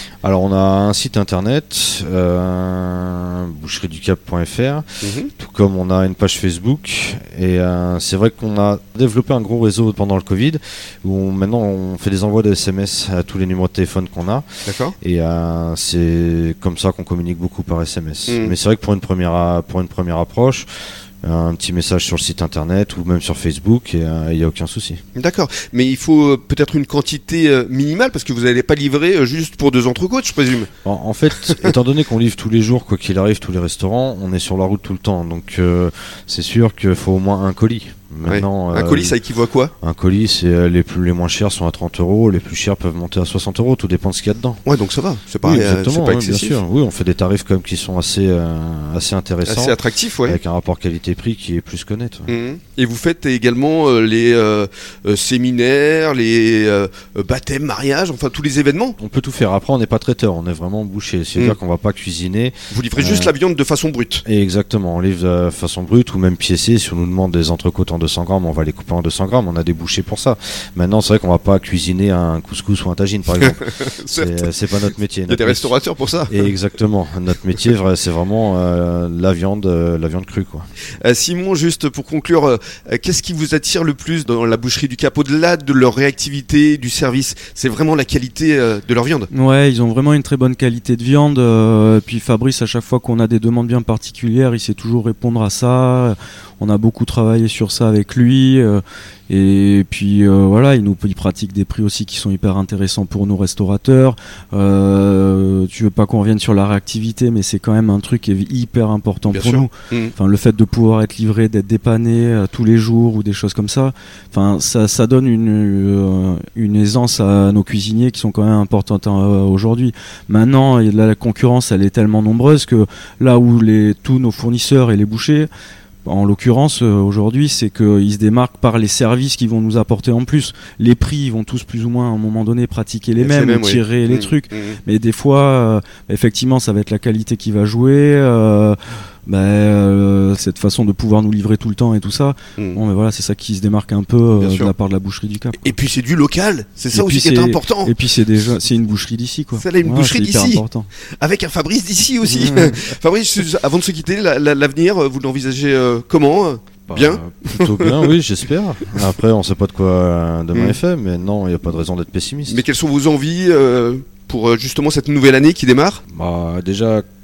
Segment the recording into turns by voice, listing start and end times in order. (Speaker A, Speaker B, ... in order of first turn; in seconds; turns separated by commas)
Speaker A: 0.2-14.4, Speaker B: 5.0-5.3, Speaker B: 14.7-15.0, Speaker A: 15.0-20.7, Speaker B: 18.3-18.6, Speaker A: 21.2-25.0, Speaker B: 25.1-30.7, Speaker A: 30.8-39.2, Speaker B: 38.2-39.7, Speaker A: 39.8-44.6, Speaker B: 44.6-46.6, Speaker A: 45.4-52.3, Speaker B: 49.5-50.4, Speaker B: 52.3-59.0, Speaker A: 59.0-63.4, Speaker B: 62.7-64.2, Speaker A: 64.2-75.7, Speaker B: 73.4-74.5, Speaker B: 75.3-76.5, Speaker A: 76.3-80.7, Speaker B: 81.0-89.3, Speaker C: 89.3-125.5, Speaker B: 109.3-110.1, Speaker C: 126.0-145.7, Speaker B: 133.2-134.8, Speaker B: 144.4-144.7, Speaker B: 145.6-147.9, Speaker C: 146.9-150.9, Speaker B: 149.6-150.6, Speaker B: 151.2-158.1, Speaker C: 152.4-152.8, Speaker A: 156.9-162.6, Speaker B: 162.5-166.0, Speaker A: 166.1-167.1